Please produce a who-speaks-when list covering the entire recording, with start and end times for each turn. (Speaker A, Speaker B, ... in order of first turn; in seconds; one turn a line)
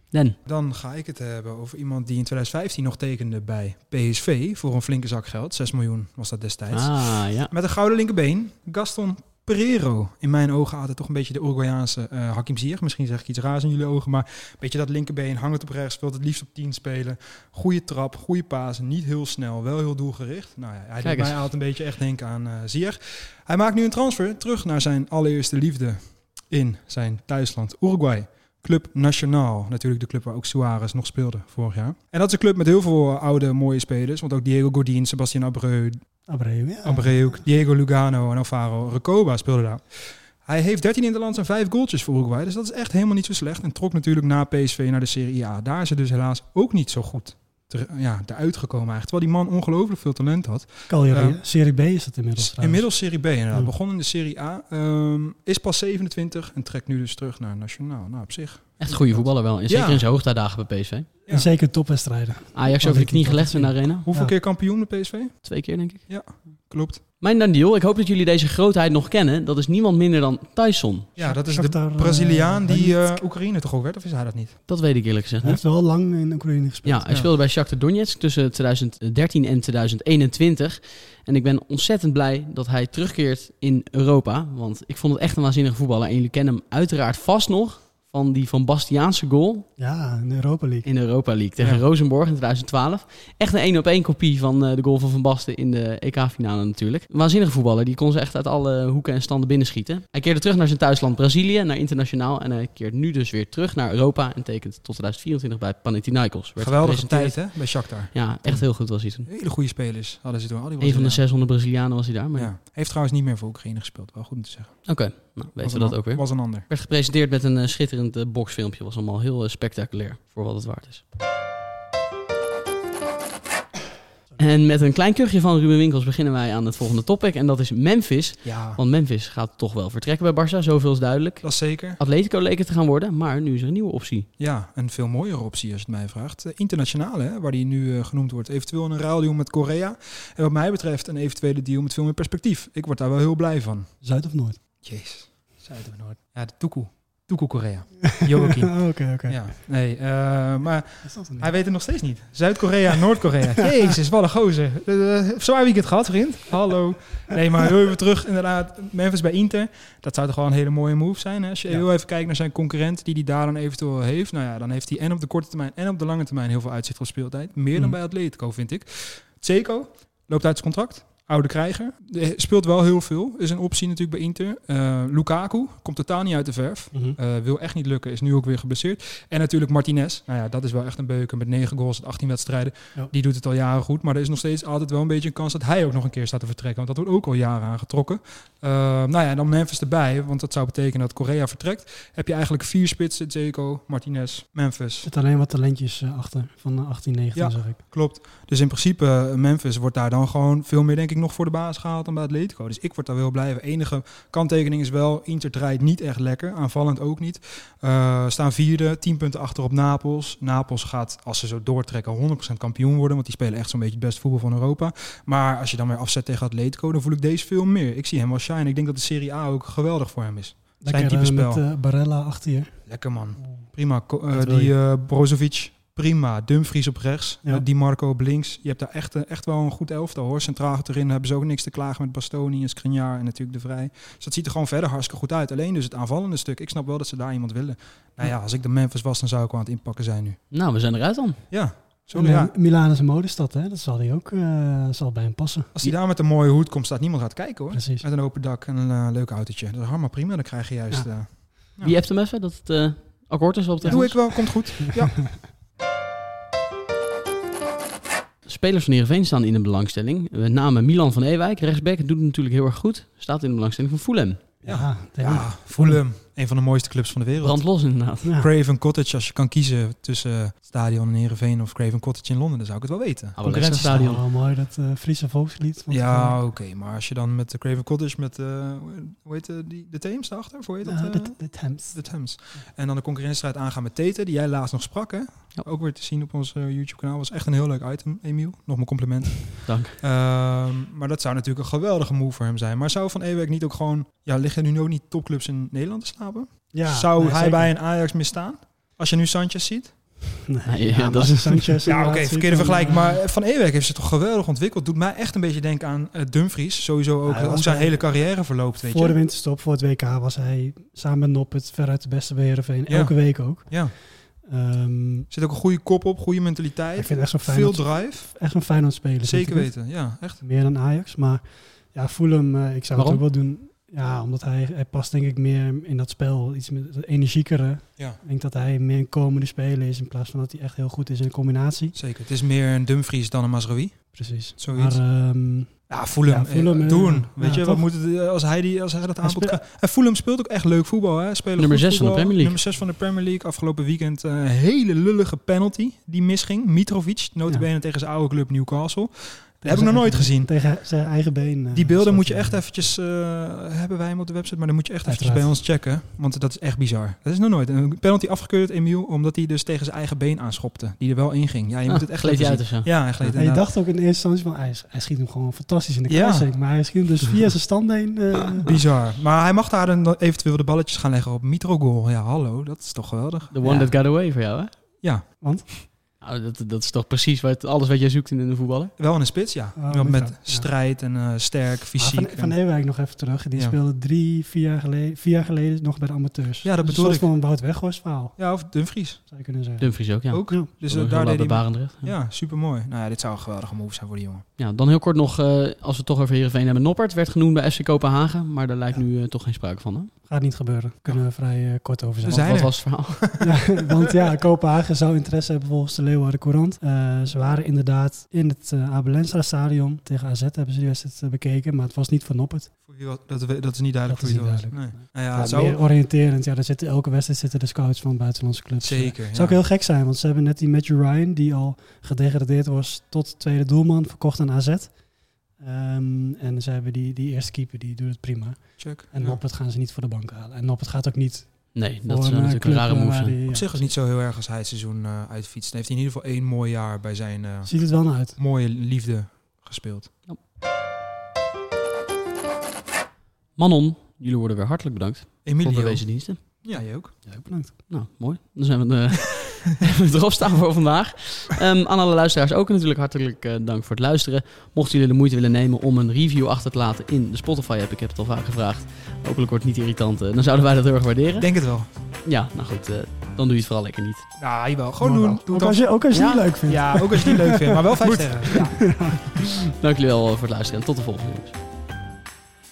Speaker A: 0.5-36.0
Speaker B: 6.7-7.5
Speaker B: 21.0-21.4
Speaker C: 36.3-37.4
Speaker A: 36.8-51.4
Speaker C: 50.9-53.0
Speaker A: 52.4-60.1
Speaker B: 58.8-61.1
Speaker C: 61.3-64.3
Speaker B: 62.5-64.0
Speaker A: 64.1-65.3
Speaker B: 65.5-66.0
Speaker A: 66.1-67.0
Speaker B: 67.2-71.1
Speaker A: 71.2-74.6
Speaker C: 71.2-73.2
Speaker B: 74.7-75.6
Speaker C: 75.4-77.1
Speaker B: 76.8-89.7
Speaker C: 89.8-90.9
Speaker B: 90.8-109.3
Speaker A: 106.6-111.2
Speaker B: 110.8-112.5
Speaker A: 112.3-114.9
Speaker B: 114.8-121.0
Speaker A: 115.6-116.7
Speaker B: 124.4-134.3
Speaker A: 128.4-128.8
Speaker A: 131.4-132.0
Speaker A: 134.4-143.9
Speaker C: 144.0-144.6
Speaker A: 144.8-195.1
Speaker C: 148.2-149.5
Speaker C: 151.0-151.6
Speaker C: 195.0-197.8
Speaker A: 197.3-221.6
Speaker C: 220.8-222.8
Speaker A: 222.9-240.4
Speaker C: 223.4-223.7
Speaker C: 224.2-224.7
Speaker B: 240.5-241.4
Speaker A: 241.5-242.5
Speaker C: 242.1-245.7
Speaker A: 245.8-252.0
Speaker C: 247.7-248.1
Speaker B: 251.8-254.5
Speaker C: 253.8-255.2
Speaker A: 253.9-255.4
Speaker B: 258.5-264.4
Speaker C: 264.6-266.0
Speaker A: 264.6-273.9
Speaker B: 267.4-268.3
Speaker C: 268.2-268.5
Speaker B: 273.4-274.2
Speaker C: 273.5-276.4
Speaker A: 275.9-299.9
Speaker C: 280.9-282.1
Speaker B: 289.6-290.0
Speaker C: 296.7-297.7
Speaker C: 300.5-303.2
Speaker B: 300.7-301.8
Speaker A: 301.9-309.2
Speaker C: 307.2-315.3
Speaker A: 312.9-314.0
Speaker A: 315.3-318.3
Speaker C: 316.9-332.0
Speaker A: 319.2-320.4
Speaker B: 323.0-323.2
Speaker A: 331.9-334.1
Speaker C: 334.1-337.9
Speaker A: 334.6-335.0
Speaker A: 335.9-350.5
Speaker C: 339.2-339.6
Speaker B: 341.6-342.6
Speaker C: 349.6-352.6
Speaker A: 351.7-363.6
Speaker C: 355.1-355.6
Speaker B: 361.9-363.4
Speaker C: 363.4-368.7
Speaker A: 366.1-366.5
Speaker A: 368.6-373.6
Speaker B: 373.5-374.7
Speaker C: 373.6-373.9
Speaker A: 375.0-375.8
Speaker C: 375.4-375.8
Speaker B: 376.2-378.9
Speaker A: 379.0-382.6
Speaker C: 379.8-380.7
Speaker C: 382.0-388.4
Speaker A: 386.6-387.3
Speaker A: 388.4-389.2
Speaker C: 389.2-390.7
Speaker B: 389.8-392.1
Speaker A: 390.3-394.4
Speaker B: 394.6-400.1
Speaker C: 400.3-402.5
Speaker A: 402.2-403.4
Speaker B: 402.3-403.2
Speaker C: 403.4-412.7
Speaker A: 412.9-415.8
Speaker C: 414.1-424.9
Speaker A: 418.8-419.6
Speaker C: 425.6-433.9
Speaker A: 428.8-429.4
Speaker B: 431.7-433.4
Speaker A: 433.5-440.1
Speaker C: 437.7-438.4
Speaker B: 443.6-446.4
Speaker A: 445.4-447.1
Speaker C: 447.2-447.8
Speaker B: 447.9-461.5
Speaker A: 461.4-461.9
Speaker B: 462.3-464.2
Speaker A: 464.4-465.8
Speaker C: 465.0-469.6
Speaker B: 466.1-466.4
Speaker A: 466.7-469.2
Speaker B: 469.4-471.6